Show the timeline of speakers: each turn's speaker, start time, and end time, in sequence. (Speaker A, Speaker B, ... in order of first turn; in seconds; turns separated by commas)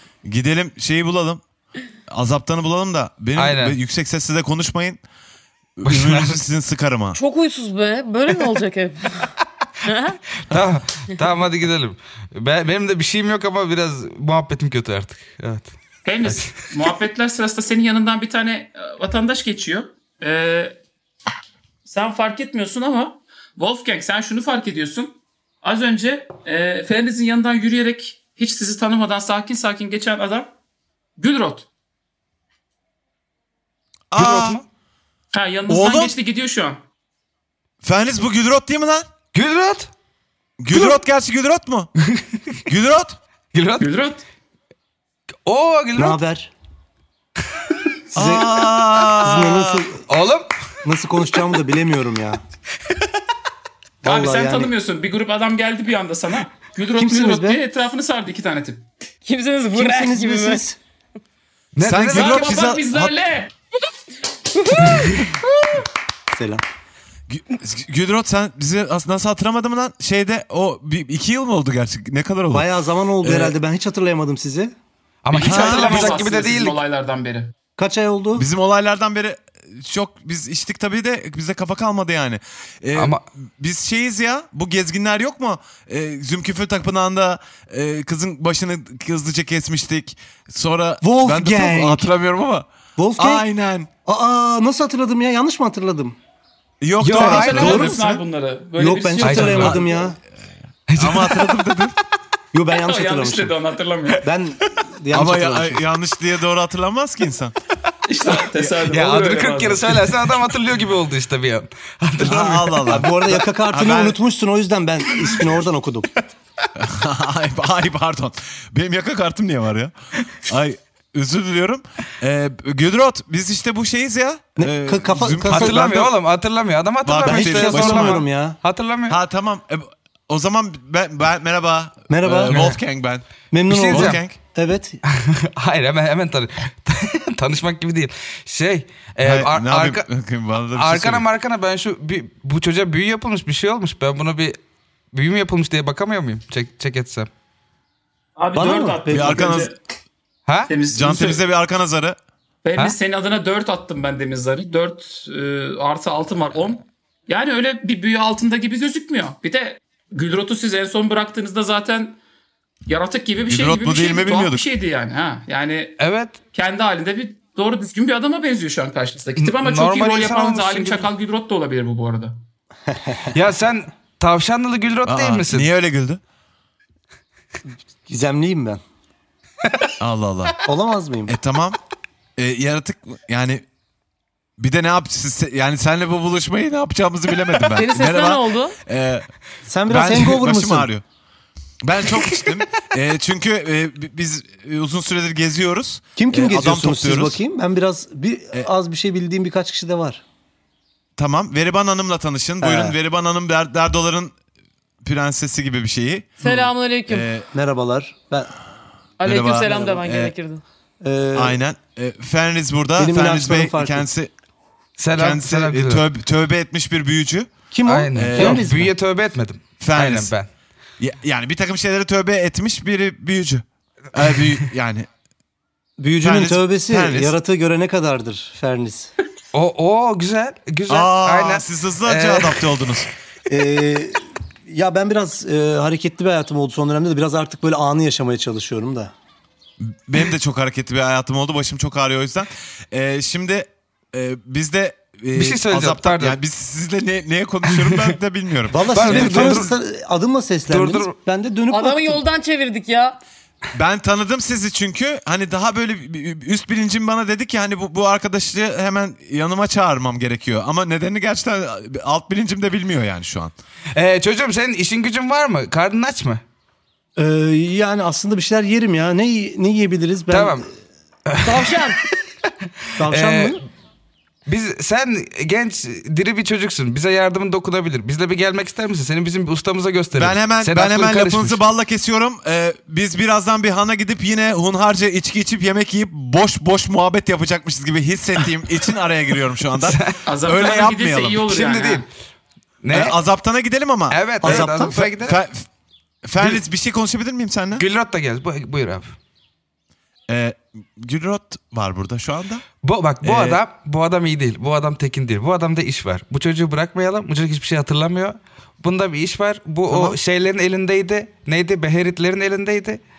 Speaker A: 0.2-1.4, Speaker A: 2.1-5.0, Speaker B: 3.4-3.8, Speaker A: 5.8-7.2, Speaker B: 5.8-6.4, Speaker C: 7.1-9.3, Speaker C: 9.8-10.2, Speaker B: 10.5-16.5, Speaker D: 16.1-20.8, Speaker D: 21.9-30.5, Speaker D: 31.2-31.7, Speaker A: 34.1-34.6, Speaker B: 34.2-34.6, Speaker D: 35.3-36.8, Speaker A: 35.7-36.1, Speaker A: 37.8-39.1, Speaker B: 39.3-39.9, Speaker A: 40.6-41.9, Speaker A: 42.7-43.2, Speaker B: 43.5-43.9, Speaker D: 43.8-44.2, Speaker B: 45.5-46.2, Speaker E: 46.0-46.5, Speaker E: 48.1-48.5, Speaker A: 48.1-49.9, Speaker B: 48.6-49.1, Speaker E: 49.2-50.1, Speaker B: 50.1-50.5, Speaker E: 50.8-52.4, Speaker E: 54.0-54.7, Speaker D: 54.0-58.9, Speaker E: 57.0-57.6, Speaker C: 59.3-60.6, Speaker E: 59.7-60.8, Speaker B: 61.8-62.7, Speaker A: 61.8-63.1, Speaker D: 62.1-63.5, Speaker E: 66.3-66.6, Speaker A: 67.3-72.7, Speaker E: 72.5-74.7, Speaker B: 73.2-73.5, Speaker B: 75.2-76.8, Speaker D: 75.3-77.5, Speaker A: 75.4-76.2, Speaker E: 77.8-78.5, Speaker A: 78.4-93.9, Speaker B: 83.0-83.2, Speaker E: 91.0-92.1, Speaker E: 93.0-93.5, Speaker E: 94.0-96.2, Speaker A: 96.8-98.2, Speaker B: 97.0-97.8, Speaker E: 97.1-98.1, Speaker D: 97.2-99.8, Speaker E: 98.8-100.2, Speaker B: 99.2-99.7, Speaker A: 99.5-100.0, Speaker B: 100.9-101.5, Speaker A: 101.0-102.0, Speaker E: 102.5-103.5, Speaker D: 102.8-104.3, Speaker E: 104.2-105.8, Speaker A: 105.1-107.5, Speaker D: 108.0-110.3, Speaker B: 108.3-112.8, Speaker A: 112.2-114.2, Speaker E: 112.8-116.1, Speaker A: 116.8-119.9, Speaker A: 120.5-126.1, Speaker E: 124.6-126.1, Speaker B: 125.5-129.1, Speaker A: 127.0-128.2, Speaker E: 127.2-128.6, Speaker A: 129.1-134.4, Speaker E: 132.1-132.7, Speaker B: 132.5-132.8, Speaker E: 133.5-135.0, Speaker B: 133.7-134.2, Speaker B: 135.2-140.0, Speaker A: 139.2-141.3, Speaker B: 140.8-144.6, Speaker B: 145.1-147.3, Speaker D: 148.4-149.8, Speaker E: 148.5-149.4, Speaker A: 149.1-149.7, Speaker B: 150.5-150.7, Speaker D: 150.7-151.4, Speaker A: 150.9-152.2, Speaker D: 152.6-162.2, Speaker D: 162.9-166.0, Speaker A: 163.5-164.7, Speaker B: 166.0-166.4, Speaker D: 166.5-172.4, Speaker B: 169.4-171.1, Speaker E: 172.9-173.3, Speaker B: 173.3-175.7, Speaker A: 175.1-176.2, Speaker E: 178.1-178.8, Speaker A: 180.0-180.6, Speaker E: 180.7-181.3, Speaker A: 181.3-181.8, Speaker A: 182.4-183.6, Speaker A: 184.6-189.3, Speaker C: 187.8-188.8, Speaker E: 189.7-190.9, Speaker A: 189.9-191.0, Speaker A: 191.8-197.4, Speaker E: 196.2-200.2, Speaker A: 201.2-204.3, Speaker E: 202.6-203.0, Speaker A: 205.0-207.5, Speaker C: 206.4-207.3, Speaker E: 207.5-208.5, Speaker C: 209.2-210.6, Speaker A: 209.2-210.3, Speaker E: 209.7-210.0, Speaker E: 211.0-211.6, Speaker A: 211.3-214.3, Speaker E: 213.0-214.1, Speaker B: 215.0-216.0, Speaker A: 215.2-217.5, Speaker E: 217.7-218.9, Speaker B: 217.9-220.5, Speaker A: 218.2-218.6, Speaker A: 219.8-220.3, Speaker A: 221.0-225.1, Speaker E: 226.0-229.1, Speaker A: 226.2-227.4, Speaker B: 229.5-232.7, Speaker A: 230.9-233.1, Speaker E: 233.5-239.1, Speaker A: 239.8-249.7, Speaker B: 245.4-246.4, Speaker E: 248.7-252.2, Speaker B: 248.9-249.7, Speaker B: 250.7-251.2, Speaker C: 251.7-253.2, Speaker A: 253.7-263.5, Speaker B: 263.9-266.4, Speaker E: 267.2-270.7, Speaker B: 270.3-270.6, Speaker B: 271.3-271.5, Speaker C: 271.4-272.0, Speaker E: 273.0-273.6, Speaker B: 273.0-273.6, Speaker B: 274.5-281.6, Speaker A: 280.2-291.4, Speaker B: 289.8-290.2, Speaker D: 290.2-292.1, Speaker B: 291.5-292.1, Speaker B: 292.8-293.2, Speaker A: 292.9-295.7, Speaker B: 294.1-295.4, Speaker E: 294.4-295.2, Speaker A: 296.2-297.8, Speaker B: 297.8-299.1, Speaker A: 300.3-302.6, Speaker B: 302.8-313.0, Speaker A: 303.2-303.6, Speaker A: 309.9-310.2